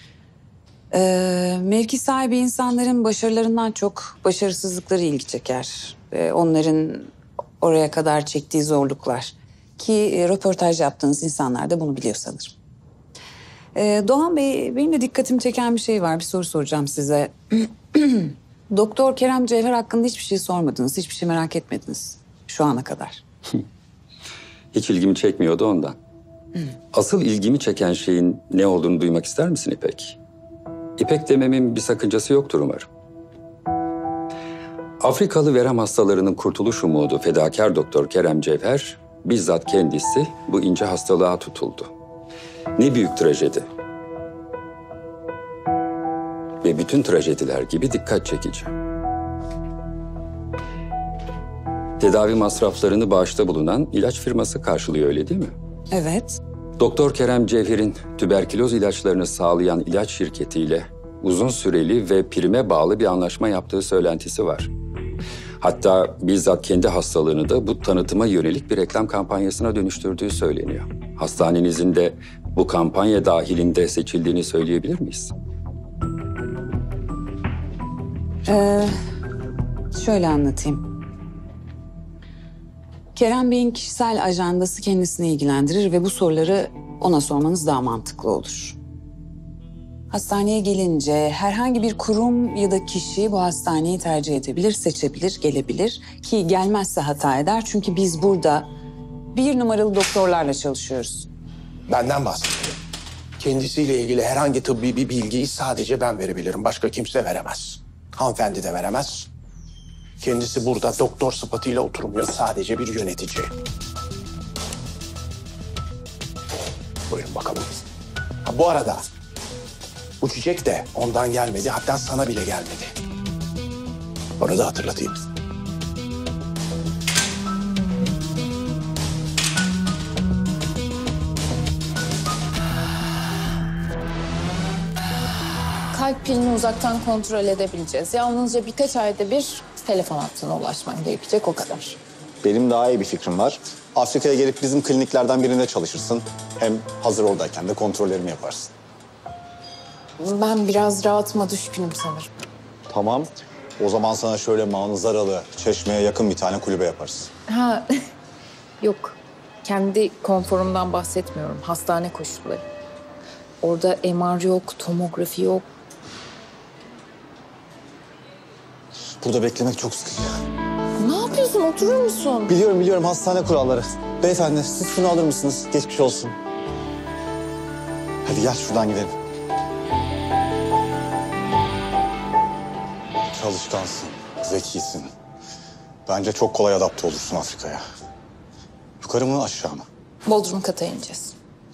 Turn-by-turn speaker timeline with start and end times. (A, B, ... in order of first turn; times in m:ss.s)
0:00.9-0:12.6 A
0:13.8-0:23.2 A
0:24.7-0:26.0 B
0:26.9-0:30.2 B
0:31.0-0:32.9 B
0:35.0-0:41.9 B
0:42.8-0:43.6 B
0:46.6-0:48.7 B
0:52.0-0:55.5 B
0:55.9-0:56.4 A
0:56.8-1:04.7 B
1:05.6-1:15.3 B
1:18.5-1:18.9 A
1:19.9-1:20.9 A
1:23.2-1:28.8 A
1:30.1-1:38.7 A
1:39.3-1:41.3 A
1:41.9-1:42.8 C
1:43.4-1:49.3 C
1:50.2-1:53.5 C
1:57.1-1:57.8 C
1:58.4-1:59.1 C
2:00.2-2:03.0 C
2:04.4-2:05.2 C
2:15.9-2:22.0 D
2:22.4-2:28.7 E
2:30.2-2:32.3 D
2:32.9-2:37.3 E
2:37.5-2:37.9 D
2:38.8-2:42.6 D
2:43.6-2:45.6 D
2:49.2-2:50.2 E
2:51.0-2:52.5 D
2:52.5-2:56.4 E
2:58.2-2:59.1 E
3:03.3-3:05.1 E
3:06.1-3:07.8 E
3:09.0-3:09.8 E
3:10.3-3:11.3 D